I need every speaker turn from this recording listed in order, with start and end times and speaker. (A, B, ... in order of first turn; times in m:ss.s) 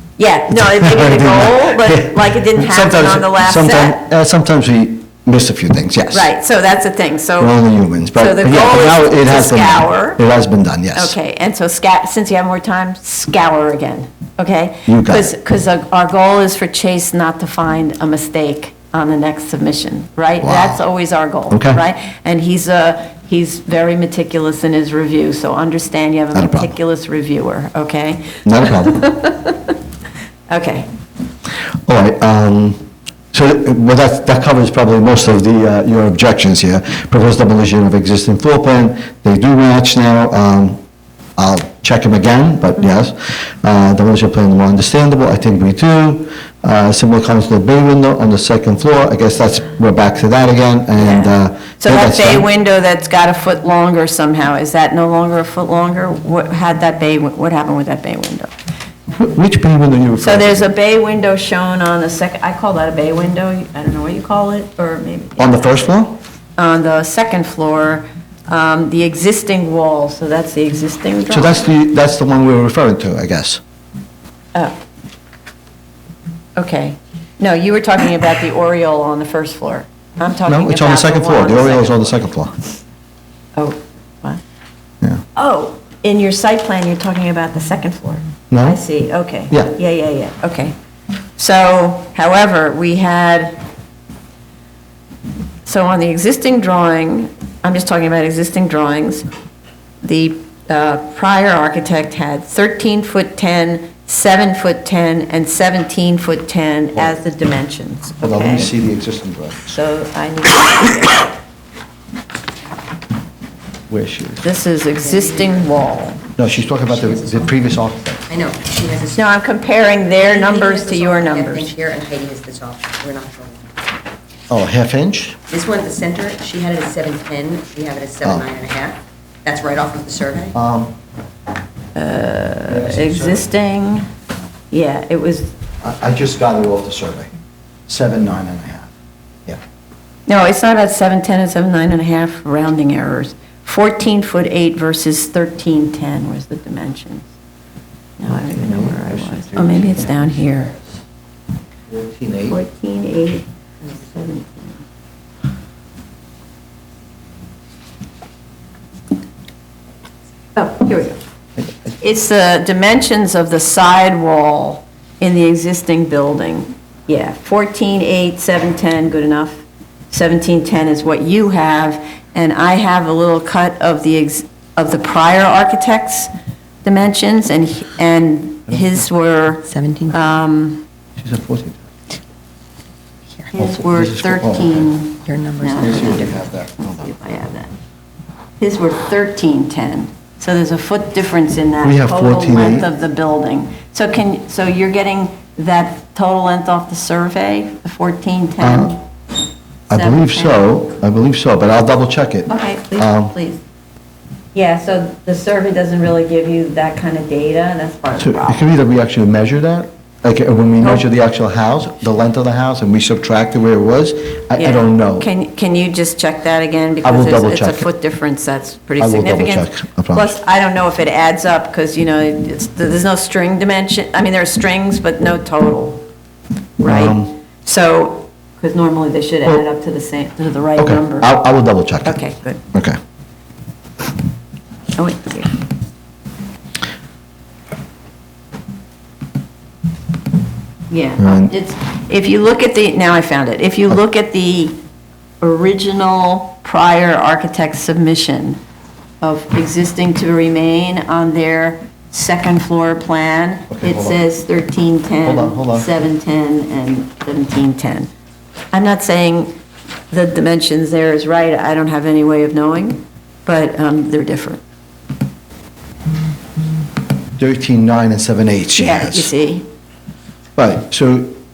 0:00.2-0:04.0 A
0:00.5-0:06.3 B
0:06.1-0:07.5 A
0:07.4-0:11.2 B
0:08.1-0:10.2 A
0:11.0-0:29.8 A
0:14.9-0:15.3 B
0:20.4-0:20.8 B
0:21.5-0:21.8 B
0:26.3-0:26.8 B
0:28.4-0:29.1 B
0:30.5-0:30.9 A
0:31.8-0:32.8 B
0:33.3-0:40.8 B
0:41.4-0:52.5 B
0:51.0-0:58.5 A
0:59.2-1:00.7 B
1:00.2-1:05.9 A
1:05.4-1:06.2 B
1:06.6-1:11.7 A
1:11.3-1:13.6 B
1:16.6-1:22.2 A
1:20.5-1:22.6 B
1:23.6-1:24.4 A
1:25.4-1:30.8 A
1:28.5-1:28.8 B
1:31.4-1:33.6 A
1:35.6-1:39.3 A
1:40.0-1:48.7 A
1:48.2-1:49.7 B
1:49.7-1:51.3 A
1:53.9-1:54.4 B
1:54.4-1:56.2 A
1:55.0-1:55.8 C
1:56.4-1:58.2 B
1:56.4-1:57.5 C
1:58.3-1:59.3 C
1:59.2-2:01.8 A
2:00.1-2:03.6 C
2:04.5-2:05.4 B
2:05.5-2:10.6 C
2:10.5-2:10.9 B
2:11.9-2:14.1 A
2:12.7-2:13.5 B
2:14.7-2:15.5 A
2:15.8-2:17.3 B
2:17.9-2:18.9 B
2:20.3-2:27.3 A
2:28.2-2:30.8 A
2:28.2-2:30.3 B
2:31.9-2:32.6 B
2:32.5-2:34.8 A
2:40.6-2:41.2 A
2:42.0-2:56.3 A
2:56.8-3:00.8 A
2:59.7-3:00.2 C
3:01.2-3:01.8 B
3:03.5-3:07.7 A
3:03.6-3:04.9 B
3:05.2-3:06.5 C
3:05.8-3:07.0 B
3:08.6-3:19.0 A
3:11.8-3:12.9 B
3:18.6-3:19.0 B
3:19.9-3:23.3 B
3:19.9-3:20.7 A
3:22.5-3:23.6 A
3:24.6-3:28.7 A
3:28.2-3:35.3 B
3:30.8-3:31.1 A
3:34.6-3:46.0 A
3:37.0-3:37.9 B
3:39.0-3:40.3 B
3:46.8-3:51.3 A
3:46.8-3:47.3 B
3:50.8-3:52.2 B
3:52.0-3:52.6 A
3:55.0-3:55.5 A
4:00.9-4:04.8 A
4:01.2-4:01.5 B
4:05.4-4:08.6 A
4:09.2-4:18.1 A
4:13.7-4:14.2 B
4:15.2-4:15.9 B
4:18.7-4:19.6 A
4:20.1-4:24.6 A
4:27.4-4:29.3 B
4:28.7-4:29.6 A
4:30.6-4:31.4 B